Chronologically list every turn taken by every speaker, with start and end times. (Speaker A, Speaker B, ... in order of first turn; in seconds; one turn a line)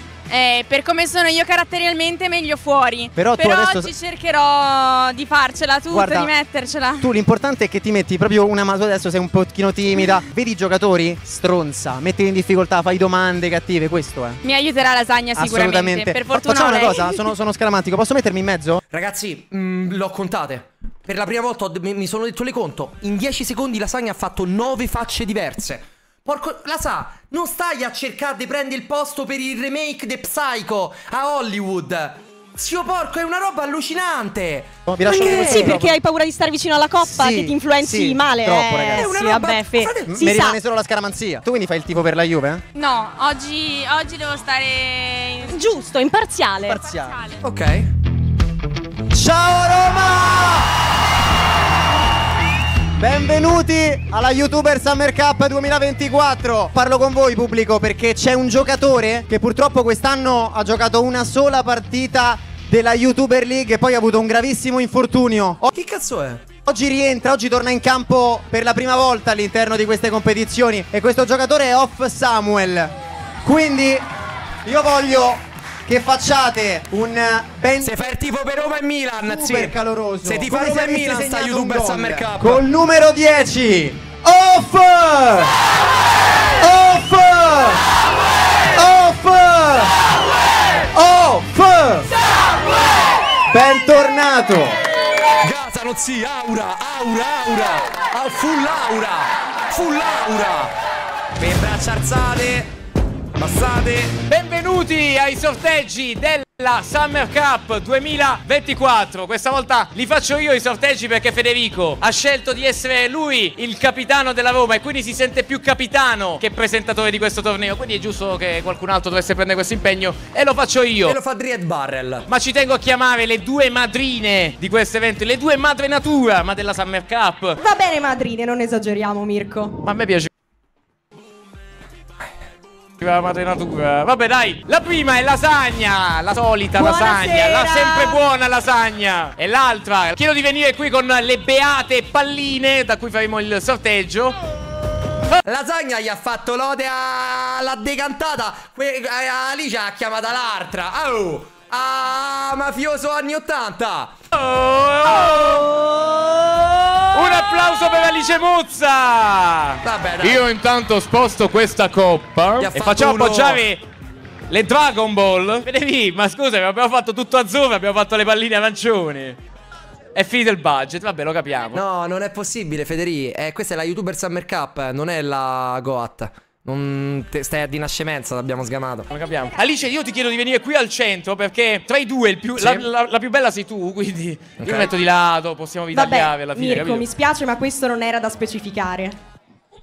Speaker A: 0.3-7.1
Speaker B: 3.1-3.9
Speaker B: 5.9-6.3
Speaker B: 7.0-14.4
Speaker A: 14.4-17.3
Speaker B: 15.3-18.8
Speaker C: 18.9-35.8
Speaker B: 34.9-35.9
Speaker D: 35.0-40.5
Speaker B: 37.0-39.1
Speaker C: 38.9-40.1
Speaker B: 40.1-42.6
Speaker A: 42.7-45.6
Speaker D: 45.5-46.9
Speaker B: 46.7-47.0
Speaker A: 46.9-47.4
Speaker C: 47.4-47.9
Speaker B: 49.1-50.7
Speaker B: 53.0-65.6
Speaker C: 65.7-66.4
Speaker B: 66.7-72.9
Speaker B: 73.4-74.0
Speaker B: 74.6-78.0
Speaker C: 77.8-82.6
Speaker B: 79.2-85.5
Speaker B: 86.6-87.8
Speaker B: 88.7-89.9
Speaker B: 90.9-92.1
Speaker B: 93.5-94.8
Speaker C: 95.4-100.7
Speaker C: 101.4-102.7
Speaker C: 103.3-104.2
Speaker E: 104.3-121.2
Speaker C: 121.0-122.3
Speaker E: 122.3-127.6
Speaker D: 127.6-129.7
Speaker E: 129.8-130.3
Speaker E: 133.0-144.3
Speaker D: 136.8-138.2
Speaker C: 145.4-154.1
Speaker E: 154.3-155.7
Speaker D: 155.1-157.3
Speaker E: 157.1-163.8
Speaker C: 159.8-160.4
Speaker C: 162.6-163.6
Speaker E: 164.5-169.4
Speaker E: 170.1-171.8
Speaker C: 171.7-179.1
Speaker E: 179.1-187.1
Speaker C: 182.6-182.9
Speaker C: 184.6-184.9
Speaker D: 185.9-189.2